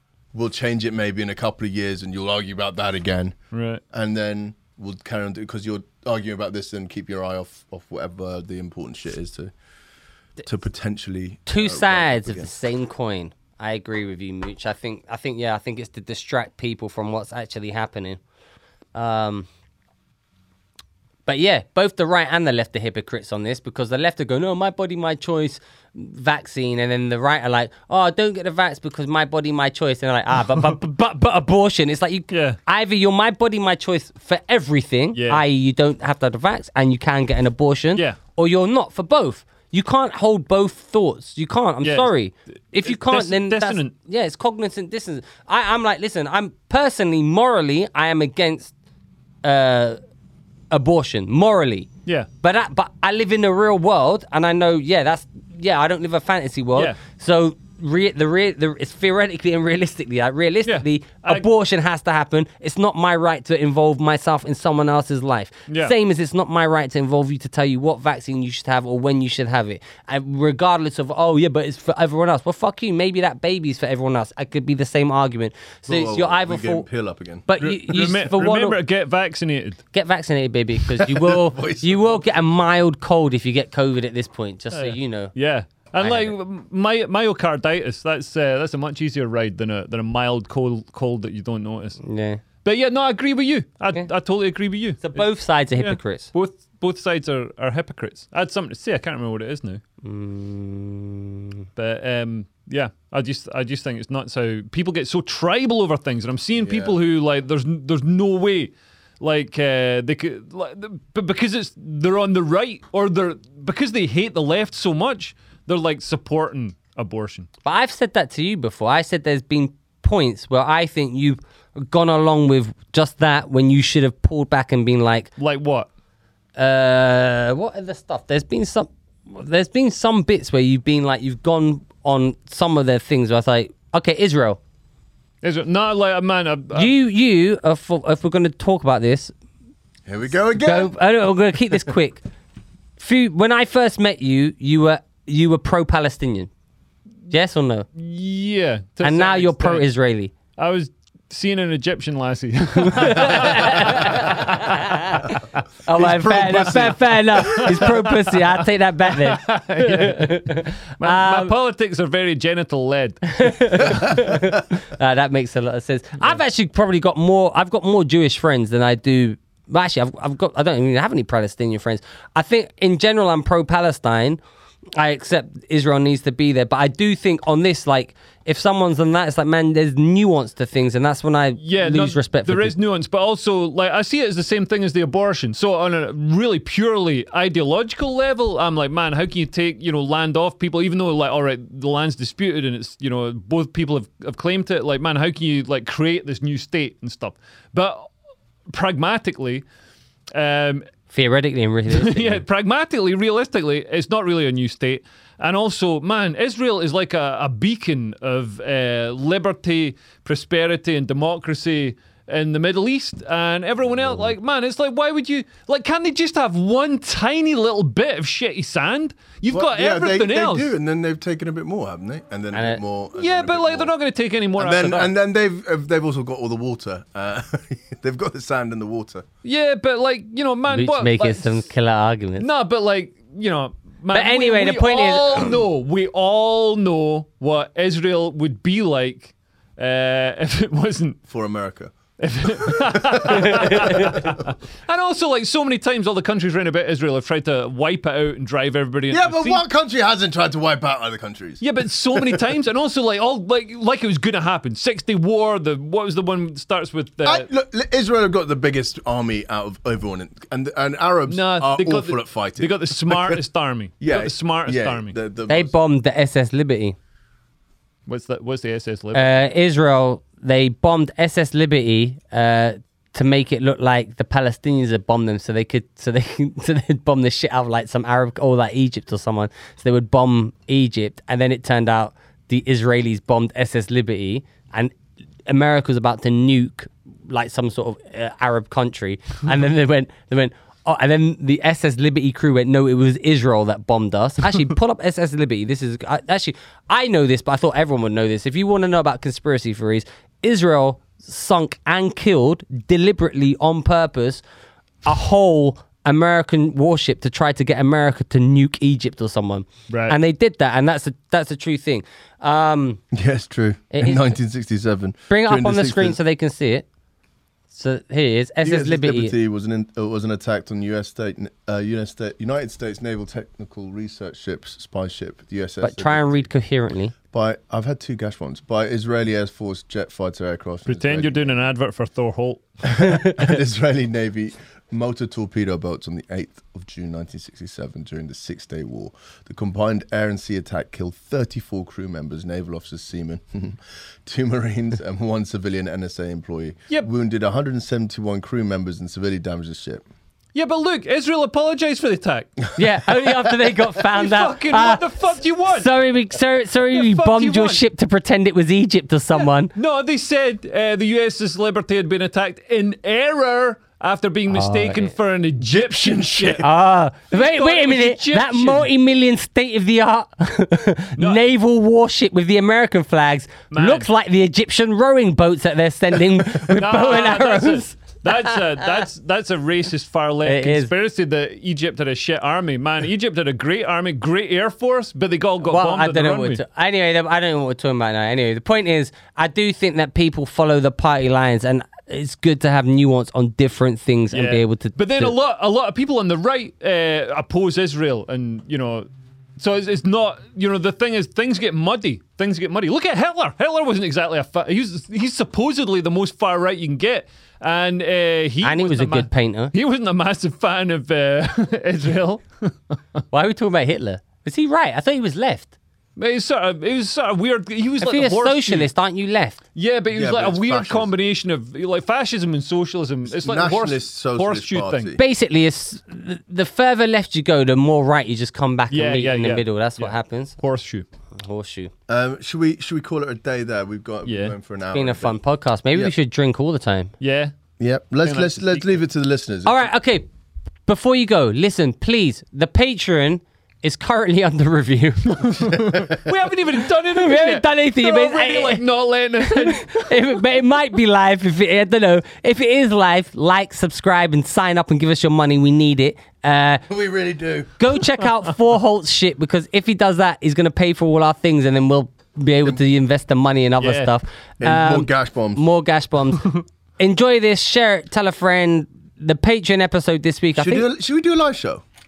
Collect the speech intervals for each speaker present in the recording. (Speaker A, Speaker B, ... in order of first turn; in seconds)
Speaker A: 0.3-3.4, 3.9-9.5, 10.4-12.5, 75.9-77.4, 81.0-82.2, 106.6-107.0, 140.1-140.9, 155.9-157.9, 219.5-223.9, 224.6-229.2, 241.3-241.9, 242.4-244.4, 249.1-251.6, 252.1-252.4, 257.2-263.4, 264.0-265.8, 313.1-316.2, 318.6-326.5, 327.3-331.7, 332.8-350.0, 365.6-366.6, 420.1-421.1, 423.3-425.2, 432.1-435.4, 437.8-439.9, 445.9-446.2, 456.9-457.8, 464.6-465.6, 470.6-471.8
Speaker B: 3.5-3.8, 32.3-32.6, 35.1-35.4, 41.8-42.1, 42.8-43.9, 60.7-61.5, 65.7-65.9, 77.6-79.8, 84.7-92.0, 92.6-99.8, 101.8-117.5, 125.4-125.9, 135.4-136.9, 147.9-149.8, 150.6-154.8, 156.0-158.3, 159.1-164.1, 181.6-198.1, 198.7-199.6, 200.3-200.8, 201.9-220.7, 223.2-225.1, 229.4-231.7, 232.4-241.2, 242.2-249.6, 251.6-257.5, 261.3-265.1, 268.1-269.3, 309.9-310.1, 330.9-332.8, 350.5-352.5, 353.9-355.9, 356.9-357.8, 359.4-366.7, 367.3-368.9, 373.7-374.1, 376.5-386.6, 394.3-399.1, 399.6-412.9, 416.1-418.9, 419.7-425.2, 428.9-431.0, 434.2-434.5, 437.2-437.5, 438.2-438.9, 445.4-450.1, 463.8-464.1
Speaker C: 11.5-18.2, 18.9-19.5, 21.2-48.7, 49.4-50.0, 50.7-51.9, 52.4-76.8, 77.5-78.8, 79.9-85.3, 86.0-86.3, 92.0-92.4, 95.0-96.3, 100.0-101.6, 117.6-125.3, 126.5-134.6, 136.7-139.3, 140.5-142.2, 143.0-146.5, 147.3-147.9, 149.0-150.3, 152.8-161.5, 163.3-174.4, 174.9-182.7, 201.1-202.4, 222.5-222.8, 230.7-232.5, 234.1-235.6, 265.5-266.9, 269.1-284.9, 285.5-304.4, 305.0-313.0, 313.9-314.3, 315.3-316.9, 317.7-319.3, 325.8-327.1, 352.8-355.1, 355.7-359.7, 364.5-365.1, 366.6-378.1, 380.4-380.9, 385.7-395.3, 408.6-409.7, 413.3-415.7, 418.0-419.6, 425.2-430.6, 431.4-431.9, 434.9-437.1, 439.6-440.3, 440.9-445.8, 447.0-448.8, 449.4-456.8, 457.8-470.9